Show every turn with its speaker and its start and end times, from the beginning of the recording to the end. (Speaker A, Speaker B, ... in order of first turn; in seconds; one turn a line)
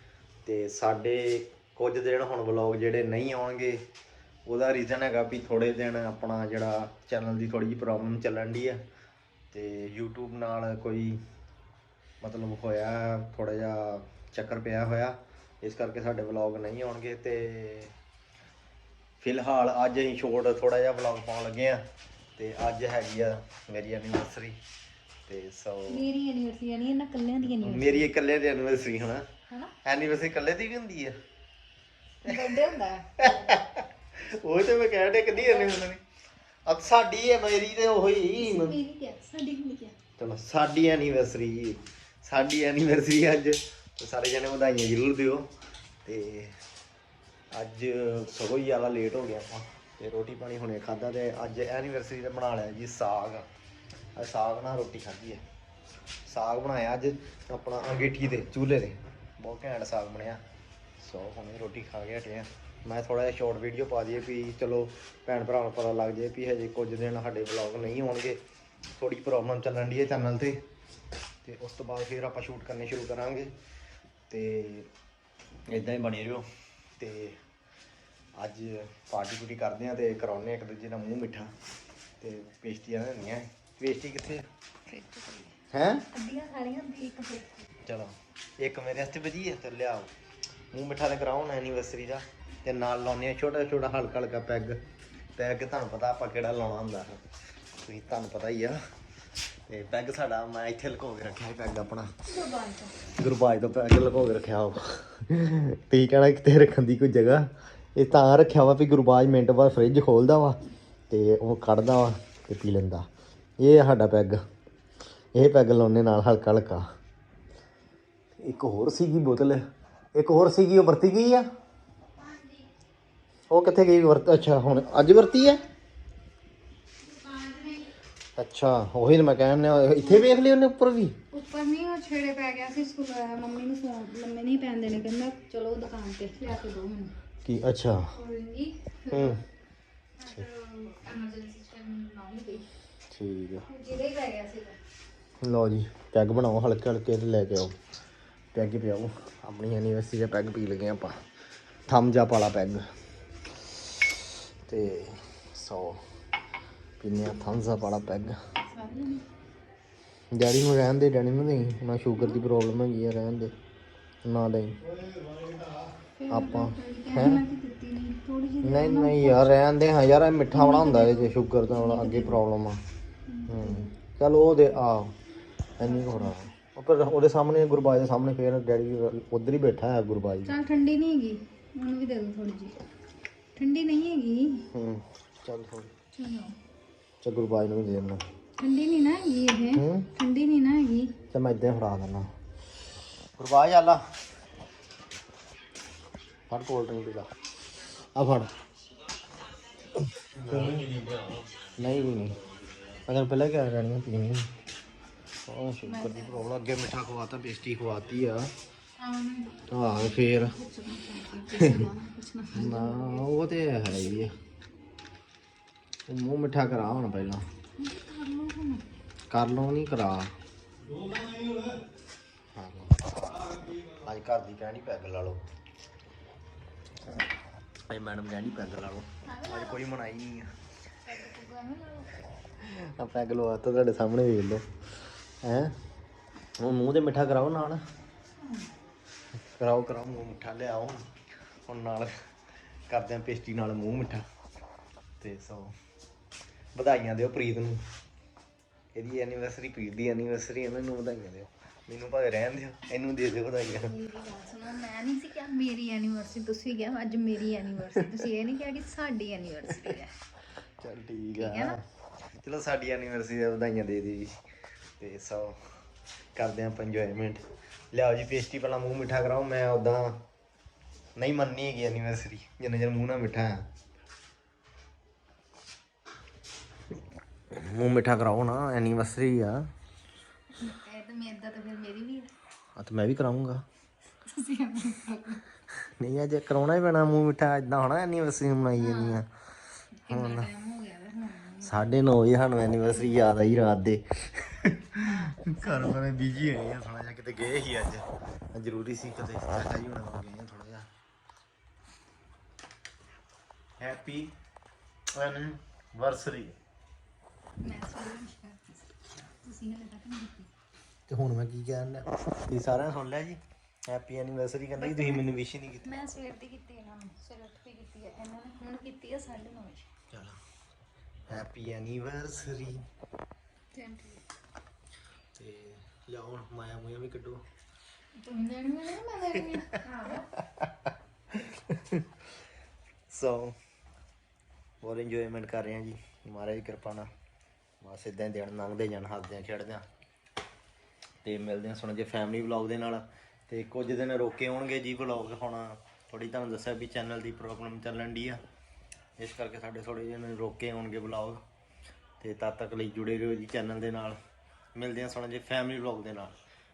Speaker A: 0.4-3.9
Speaker A: 4.5-8.8
Speaker A: 9.5-11.2
Speaker A: 12.2-17.9
Speaker A: 19.2-21.8
Speaker A: 22.4-24.6
Speaker A: 25.3-26.0
Speaker B: 25.9-28.1
Speaker A: 27.5-29.2
Speaker A: 29.8-31.1
Speaker B: 32.2-33.5
Speaker A: 33.2-36.0
Speaker B: 35.3-35.8
Speaker A: 36.7-38.8
Speaker B: 38.4-40.0
Speaker A: 40.2-45.5
Speaker A: 46.0-46.5
Speaker A: 47.5-53.5
Speaker A: 54.2-55.4
Speaker A: 56.3-60.4
Speaker A: 61.0-68.4
Speaker A: 69.0-70.6
Speaker A: 71.4-73.5
Speaker A: 74.3-74.9
Speaker A: 75.7-76.5
Speaker A: 77.0-77.4
Speaker A: 78.4-81.5
Speaker A: 82.2-84.5
Speaker B: 84.9-85.6
Speaker A: 85.7-86.1
Speaker B: 86.1-87.7
Speaker A: 87.8-90.1
Speaker A: 90.7-94.8
Speaker A: 95.4-97.2
Speaker A: 97.8-98.8
Speaker A: 99.7-102.1
Speaker B: 102.2-103.1
Speaker A: 103.2-113.1
Speaker A: 113.6-114.4
Speaker A: 115.3-116.8
Speaker A: 118.4-119.6
Speaker A: 120.1-121.5
Speaker B: 122.2-122.7
Speaker A: 123.5-125.6
Speaker B: 127.0-127.9
Speaker A: 128.4-131.2
Speaker B: 130.0-130.3
Speaker B: 131.3-137.1
Speaker A: 137.4-138.1
Speaker B: 138.1-139.4
Speaker A: 139.1-139.4
Speaker B: 140.2-142.7
Speaker A: 143.1-143.7
Speaker B: 143.7-144.8
Speaker A: 145.4-147.8
Speaker A: 148.5-151.2
Speaker A: 151.9-152.9
Speaker A: 154.7-156.0
Speaker A: 157.0-158.3
Speaker B: 158.6-159.2
Speaker A: 160.3-163.6
Speaker A: 164.2-164.9
Speaker B: 166.1-169.6
Speaker A: 166.3-167.4
Speaker A: 168.6-172.8
Speaker B: 170.5-172.4
Speaker B: 173.3-173.9
Speaker A: 173.5-175.2
Speaker A: 175.8-180.6
Speaker B: 175.8-176.4
Speaker B: 180.4-182.8
Speaker B: 183.6-184.7
Speaker A: 184.7-185.9
Speaker B: 186.1-186.6
Speaker A: 187.2-188.2
Speaker B: 188.6-191.2
Speaker A: 189.8-190.1
Speaker A: 191.3-192.3
Speaker A: 193.4-194.0
Speaker A: 196.5-197.3
Speaker A: 197.9-198.5
Speaker A: 200.3-201.1
Speaker A: 201.8-202.3
Speaker A: 203.1-204.5
Speaker A: 205.5-208.5
Speaker B: 205.8-206.5
Speaker B: 209.0-214.3
Speaker A: 209.7-210.6
Speaker A: 211.6-211.9
Speaker A: 212.5-214.3
Speaker A: 216.1-217.5
Speaker B: 217.8-218.8
Speaker A: 219.3-220.3
Speaker A: 222.6-225.4
Speaker A: 227.9-230.5
Speaker B: 229.2-229.9
Speaker B: 231.1-232.1
Speaker A: 232.6-234.7
Speaker A: 235.4-235.8
Speaker A: 236.6-237.8
Speaker B: 238.4-238.7
Speaker A: 239.6-241.1
Speaker A: 241.7-242.1
Speaker A: 242.9-244.2
Speaker A: 245.2-245.8
Speaker A: 246.7-247.8
Speaker A: 248.9-253.9
Speaker B: 253.7-260.2
Speaker A: 260.8-261.8
Speaker B: 261.4-261.8
Speaker A: 262.4-264.4
Speaker A: 265.0-265.8
Speaker A: 266.4-270.2
Speaker A: 271.2-273.7
Speaker A: 277.5-279.7
Speaker B: 280.5-282.3
Speaker A: 282.8-283.6
Speaker B: 284.2-285.4
Speaker A: 285.8-289.3
Speaker B: 288.8-289.2
Speaker B: 290.0-292.0
Speaker A: 290.1-290.5
Speaker A: 291.6-300.9
Speaker B: 292.9-293.2
Speaker B: 295.0-296.0
Speaker A: 303.8-304.3
Speaker A: 305.1-306.6
Speaker B: 307.6-310.5
Speaker A: 311.1-316.0
Speaker B: 314.8-315.3
Speaker B: 315.8-319.9
Speaker A: 320.1-320.4
Speaker A: 321.3-322.8
Speaker B: 323.7-324.2
Speaker A: 325.4-327.4
Speaker B: 328.2-330.3
Speaker A: 329.7-332.1
Speaker A: 333.1-333.6
Speaker A: 334.8-337.1
Speaker A: 337.8-339.9
Speaker A: 341.2-348.4
Speaker A: 349.2-351.4
Speaker A: 352.2-354.2
Speaker A: 354.8-356.3